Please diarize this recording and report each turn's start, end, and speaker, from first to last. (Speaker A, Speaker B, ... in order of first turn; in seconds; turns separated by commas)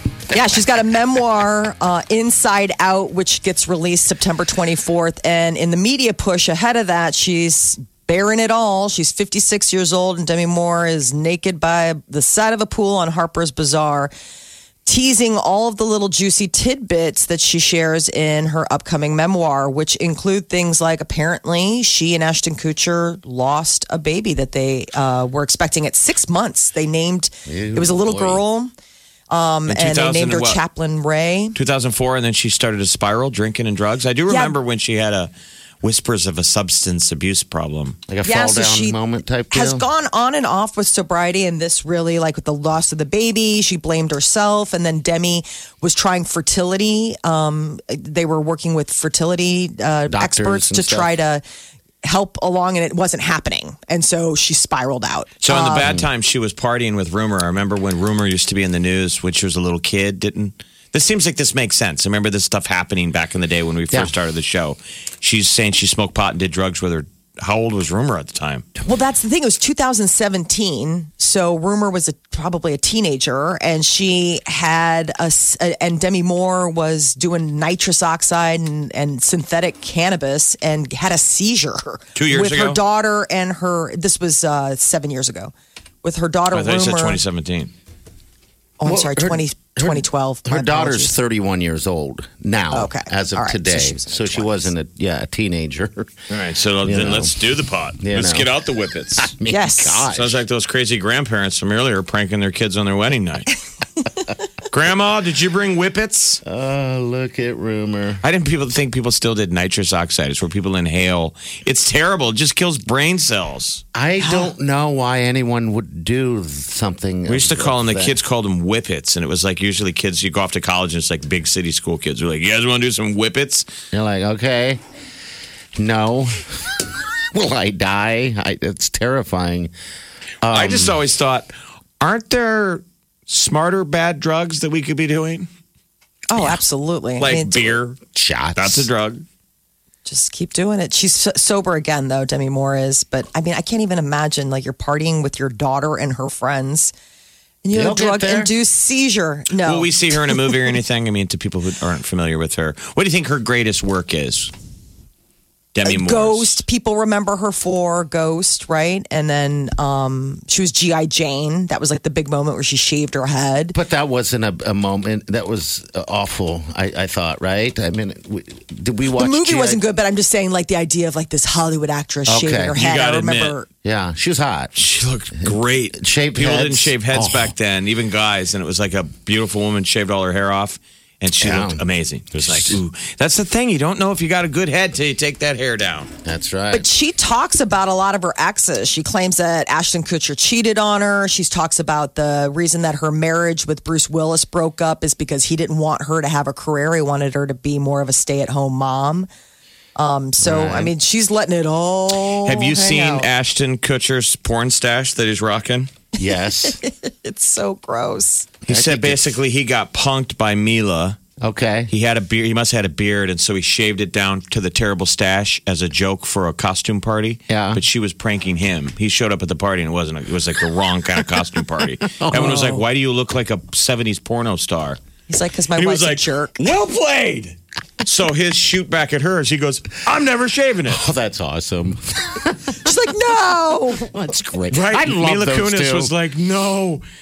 Speaker A: 0.3-14.1, Speaker A: 14.8-28.7, Speaker B: 27.4-28.4, Speaker A: 29.3-31.6, Speaker C: 29.7-30.6, Speaker C: 31.5-35.3, Speaker A: 34.3-34.5, Speaker C: 35.8-38.0, Speaker B: 38.1-39.9, Speaker A: 38.2-39.0, Speaker A: 39.5-51.4, Speaker B: 50.1-51.1, Speaker A: 52.0-55.9, Speaker C: 55.4-68.7, Speaker B: 55.8-56.1, Speaker A: 68.8-87.2, Speaker C: 82.2-82.8, Speaker C: 86.5-87.7, Speaker A: 88.8-91.2, Speaker B: 88.8-96.1, Speaker A: 92.7-94.7, Speaker C: 96.3-99.4, Speaker B: 96.8-97.3, Speaker B: 98.0-98.5, Speaker B: 99.2-100.4, Speaker A: 99.5-100.0, Speaker C: 100.1-103.5, Speaker C: 104.7-106.4, Speaker B: 106.4-108.2, Speaker C: 108.2-113.8, Speaker B: 113.9-118.2, Speaker A: 114.2-114.5, Speaker C: 117.3-123.7, Speaker B: 123.9-124.8, Speaker B: 125.8-126.8, Speaker B: 127.3-129.7, Speaker B: 130.4-131.0, Speaker C: 130.5-135.5, Speaker A: 136.3-137.7, Speaker C: 137.2-138.0, Speaker B: 138.1-138.9, Speaker C: 138.6-139.2, Speaker A: 140.0-146.9, Speaker A: 147.6-150.4, Speaker B: 147.7-148.5, Speaker C: 149.6-154.5, Speaker C: 155.7-156.6, Speaker A: 155.8-163.8, Speaker B: 163.7-169.8, Speaker A: 169.1-173.7, Speaker B: 172.3-172.8, Speaker C: 172.8-173.6, Speaker B: 173.8-174.8, Speaker C: 174.8-186.1, Speaker B: 175.4-177.5, Speaker B: 181.4-181.8, Speaker B: 182.3-182.8, Speaker B: 186.2-186.9, Speaker A: 186.7-199.3, Speaker A: 200.0-203.3, Speaker B: 200.4-200.9, Speaker C: 202.4-205.9, Speaker B: 206.2-206.8, Speaker A: 206.8-208.5, Speaker B: 208.7-209.3, Speaker C: 208.7-211.2, Speaker B: 211.4-211.9, Speaker C: 211.9-225.0, Speaker B: 217.5-217.8, Speaker B: 222.2-222.7, Speaker A: 222.3-222.8, Speaker A: 225.3-226.6, Speaker C: 225.8-231.0, Speaker B: 230.9-232.8, Speaker A: 232.8-234.1, Speaker B: 233.9-236.1, Speaker C: 234.7-237.0